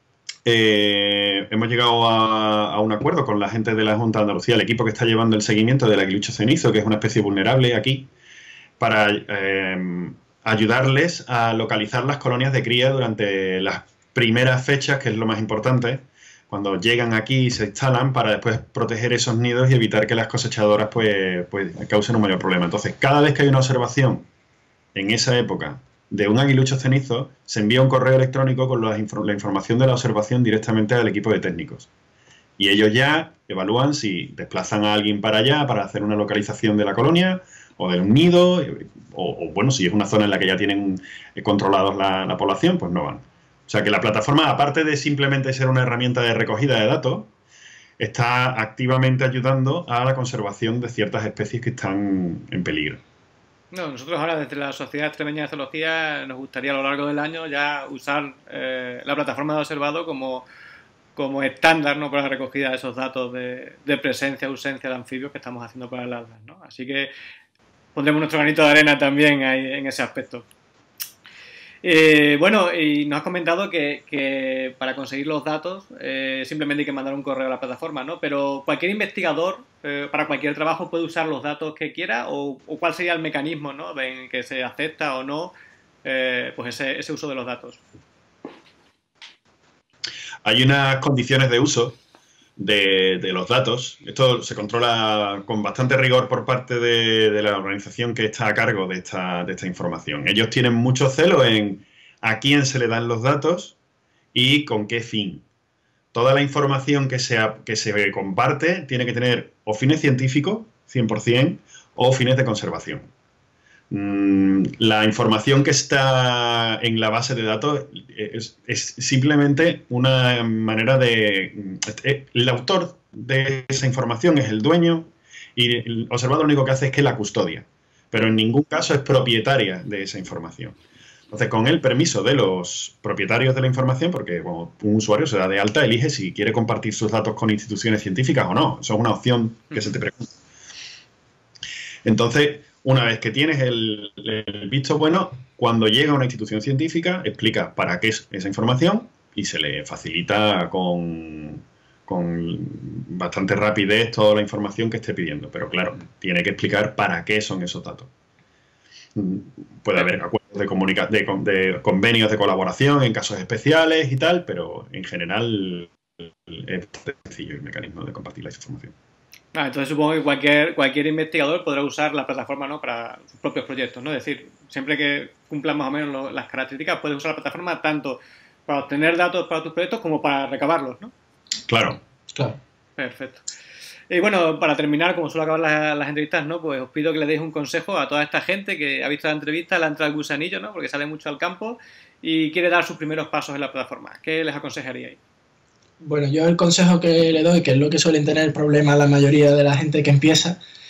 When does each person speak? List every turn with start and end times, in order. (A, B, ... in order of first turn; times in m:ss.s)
0:00.4-0:08.1 A
0:08.8-0:24.3 A
0:24.9-0:31.9 A
0:32.6-0:47.3 A
0:48.0-0:53.0 A
0:53.7-1:00.4 B
1:01.2-1:07.1 B
1:07.9-1:10.5 B
1:11.8-1:25.5 B
1:26.0-1:27.8 B
1:30.4-1:32.0 A
1:32.6-1:43.8 A
1:44.3-1:45.4 A
1:46.1-1:53.1 A
1:53.9-2:10.8 A
2:11.3-2:20.4 A
2:22.0-2:38.1 A
2:39.1-2:48.9 A
2:49.5-3:01.1 B
3:01.7-3:02.0 A
3:02.3-3:02.6 C
3:03.0-3:03.4 B
3:04.1-3:15.2 B
3:16.0-3:20.6 C